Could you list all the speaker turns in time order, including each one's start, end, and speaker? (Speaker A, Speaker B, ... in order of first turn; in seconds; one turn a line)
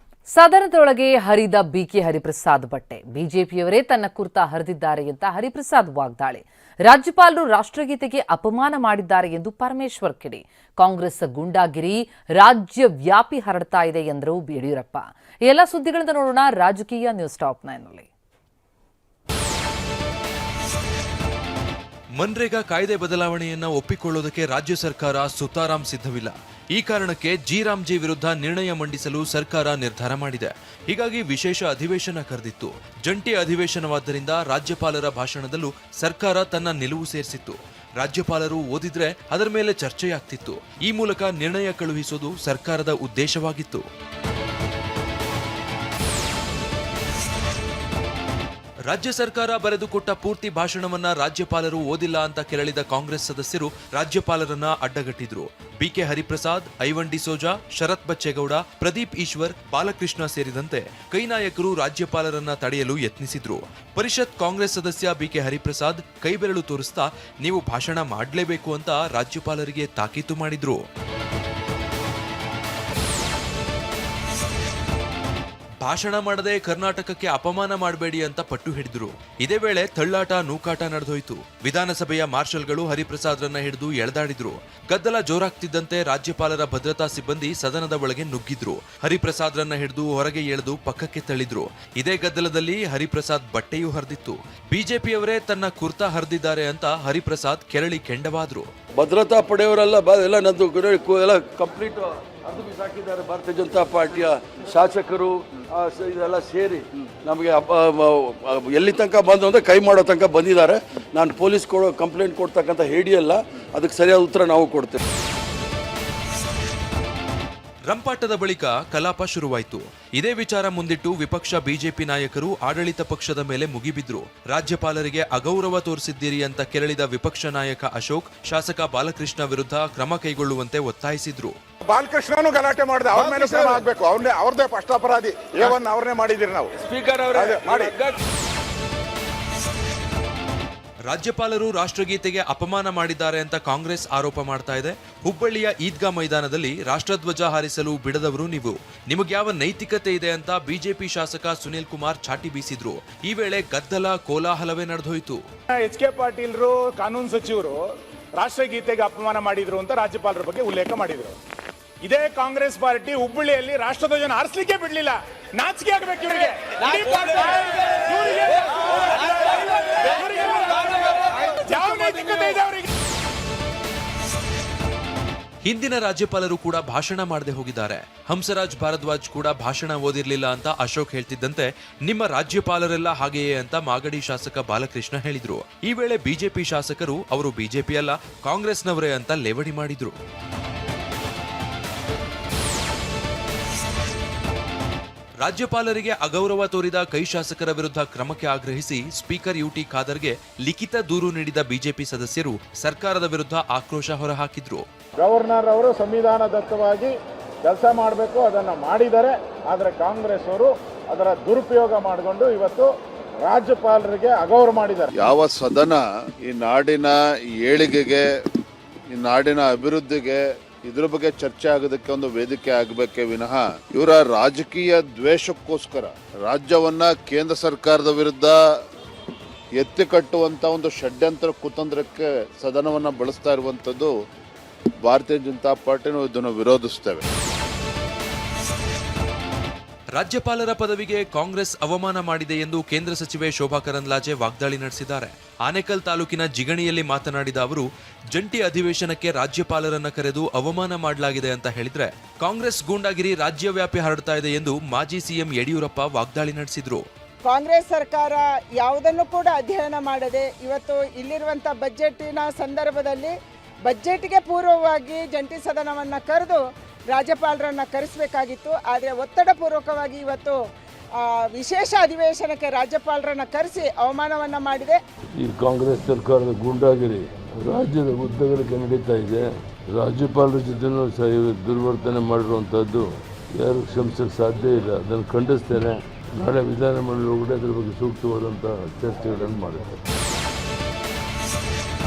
Speaker A: 0.3-18.1
Speaker B: 22.2-43.8
Speaker B: 48.9-70.8
Speaker B: 75.8-98.7
Speaker C: 99.0-115.0
Speaker B: 117.9-131.6
Speaker D: 131.8-136.7
Speaker C: 133.2-133.8
Speaker C: 136.8-138.1
Speaker D: 137.4-137.9
Speaker B: 141.1-155.4
Speaker D: 155.7-157.8
Speaker D: 158.4-161.4
Speaker D: 162.0-172.9
Speaker B: 175.6-190.2
Speaker B: 195.4-204.8
Speaker D: 205.2-215.1
Speaker E: 215.2-218.2
Speaker E: 219.1-228.6
Speaker E: 229.8-234.1
Speaker E: 235.0-237.2
Speaker B: 240.1-257.1
Speaker F: 257.4-263.3
Speaker F: 263.9-266.6
Speaker F: 267.1-270.6
Speaker F: 271.2-275.0
Speaker G: 275.4-289.9